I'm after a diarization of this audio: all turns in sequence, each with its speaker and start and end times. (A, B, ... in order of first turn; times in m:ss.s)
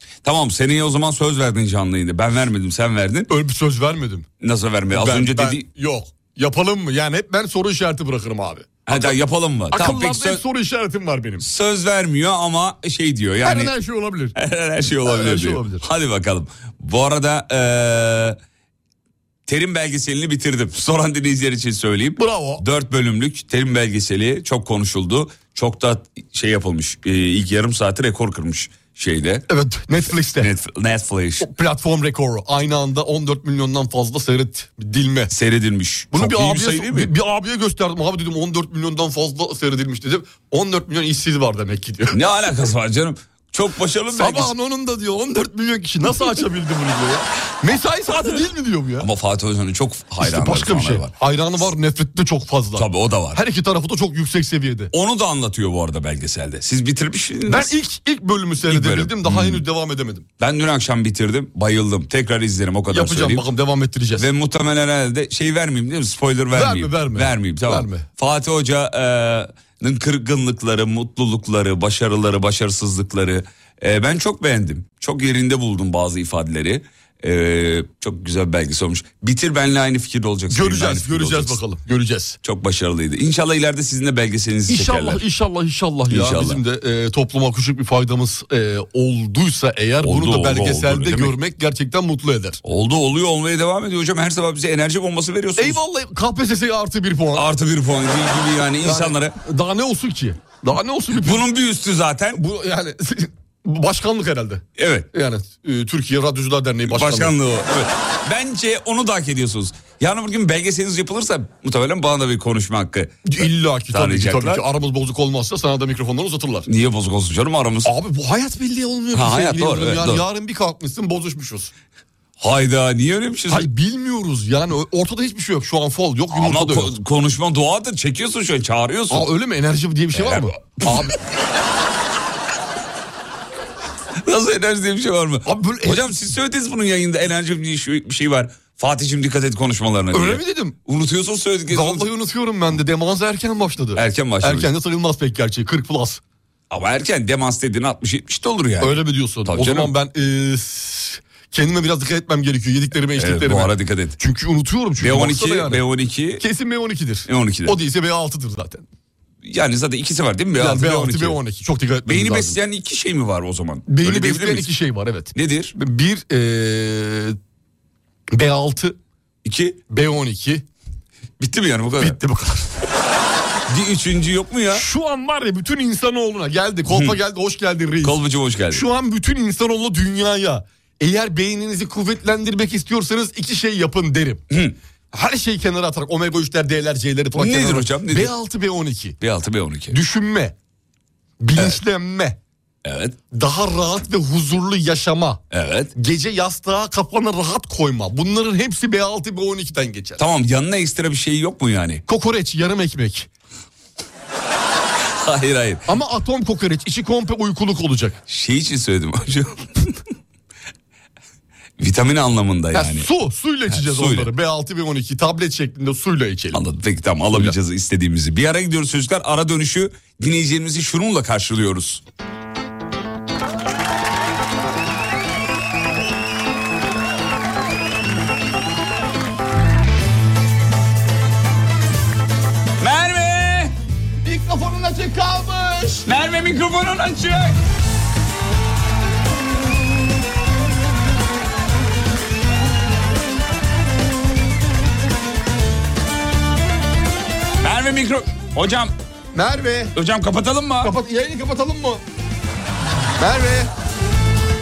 0:00.2-0:03.3 A
0:03.3-0:04.2 B
0:04.4-0:05.6 A
0:04.9-0:09.2 B
0:08.9-0:10.4 A
0:09.7-0:11.4 B
0:11.4-0:13.7 A
0:13.4-0:14.3 B
0:14.4-0:18.4 A
0:15.0-0:15.8 B
0:19.5-0:29.4 A
0:22.2-0:22.6 B
0:29.5-0:30.5 B
0:30.0-0:31.5 A
0:31.4-0:35.3 B
0:35.3-0:37.1 A
0:36.1-0:42.2 B
0:42.1-0:44.5 A
0:44.1-0:49.1 B
0:49.0-0:51.1 A
0:50.2-0:54.9 B
0:52.8-0:53.4 A
0:54.9-0:57.7 A
0:57.5-1:00.2 B
0:58.6-0:59.6 A
1:00.4-1:03.4 A
1:02.9-1:04.3 B
1:04.2-1:21.6 A
1:06.5-1:08.0 B
1:20.5-1:22.4 B
1:22.4-1:25.2 A
1:24.7-1:32.6 B
1:26.1-1:26.6 A
1:30.0-1:31.4 A
1:32.6-1:35.8 A
1:35.6-1:37.4 B
1:37.3-1:39.3 A
1:38.8-1:41.4 B
1:41.1-1:42.4 A
1:42.3-1:47.3 B
1:44.8-1:45.1 A
1:46.8-1:54.6 A
1:53.2-1:56.7 B
1:56.7-1:57.9 A
1:57.8-2:01.7 B
1:59.1-2:00.2 A
2:02.4-2:03.7 A
2:03.5-2:06.9 B
2:06.3-2:09.3 A
2:09.1-2:11.2 B
2:10.1-2:10.6 A
2:14.2-2:22.1 A
2:15.4-2:16.1 B
2:20.1-2:20.8 B
2:21.7-2:26.2 B
2:24.0-2:24.7 A
2:26.7-2:29.9 A
2:28.8-2:35.8 B
2:33.1-2:34.2 A
2:35.0-2:36.4 A
2:36.4-2:38.8 B
2:37.2-2:37.8 A
2:39.4-2:41.4 A
2:40.6-2:42.6 B
2:42.1-2:44.7 A
2:43.9-2:47.4 B
2:45.4-2:45.7 A
2:48.3-2:49.0 B
2:49.4-2:49.8 A
2:49.9-2:50.6 B
2:51.4-2:52.2 A
2:52.0-2:52.7 B
2:53.7-2:54.9 A
2:54.7-3:04.4 B
2:56.8-2:57.2 A
2:58.0-2:58.9 A
3:04.5-3:04.8 A
3:05.1-3:09.2 B
3:07.3-3:08.3 A
3:09.2-3:10.0 A
3:09.9-3:10.6 B
3:11.4-3:12.4 B
3:12.8-3:13.2 A
3:13.3-3:15.4 B
3:15.5-3:15.9 A
3:16.0-3:20.2 B
3:20.2-3:22.0 A
3:22.1-3:23.3 B
3:25.0-3:25.8 A
3:25.9-3:28.2 B
3:28.3-3:30.0 A
3:31.8-3:33.1 A
3:32.7-3:36.6 B
3:33.7-3:34.3 A
3:36.5-3:42.0 A
3:52.8-3:53.7 A
3:54.2-3:56.0 B
3:56.0-3:57.6 A
4:07.6-4:08.9 A
4:09.3-4:09.9 B
4:09.9-4:10.9 A
4:10.8-4:12.0 B
4:13.2-4:13.7 B